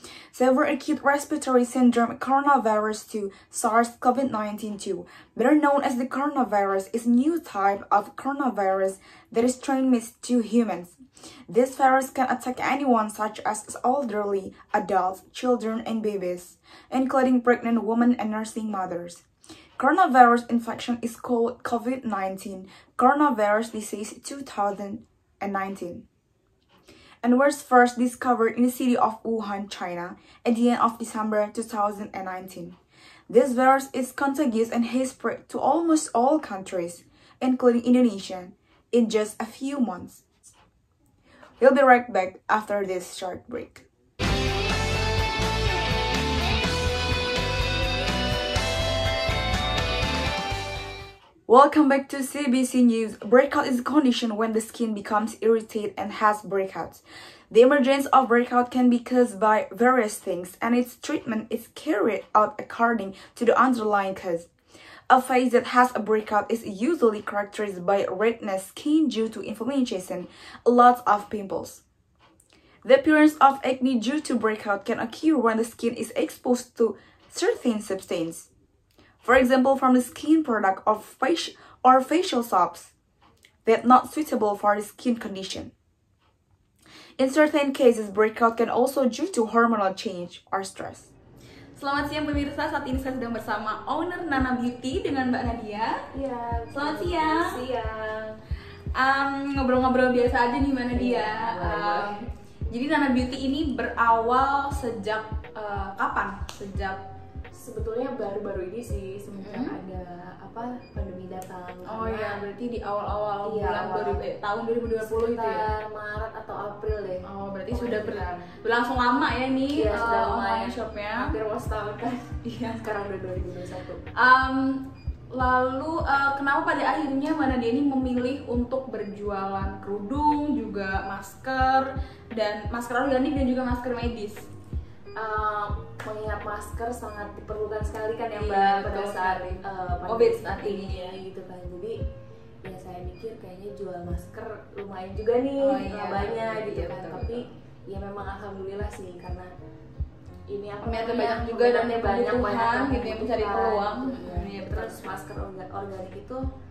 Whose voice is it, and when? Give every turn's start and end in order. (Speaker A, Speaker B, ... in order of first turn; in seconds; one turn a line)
Speaker A: 0.3-11.0
Speaker A: 11.5-19.2
Speaker A: 19.8-26.0
Speaker A: 27.2-32.8
Speaker A: 33.3-40.5
Speaker A: 41.6-43.8
Speaker A: 51.5-64.5
Speaker A: 65.1-71.8
Speaker A: 72.8-78.5
Speaker A: 79.2-82.9
Speaker A: 83.6-85.7
Speaker A: 87.2-91.1
Speaker B: 91.8-96.0
Speaker C: 96.1-98.3
Speaker B: 96.7-97.5
Speaker B: 99.0-102.2
Speaker C: 100.9-102.3
Speaker B: 102.7-107.0
Speaker C: 107.5-112.5
Speaker B: 109.3-109.7
Speaker B: 111.9-115.7
Speaker C: 113.4-114.2
Speaker C: 115.0-118.5
Speaker B: 117.2-121.3
Speaker C: 119.7-124.0
Speaker B: 122.5-122.8
Speaker B: 124.2-134.4
Speaker C: 135.2-142.0
Speaker B: 138.3-141.2
Speaker C: 142.6-149.5
Speaker B: 145.6-147.4
Speaker C: 150.5-156.4
Speaker B: 150.8-155.0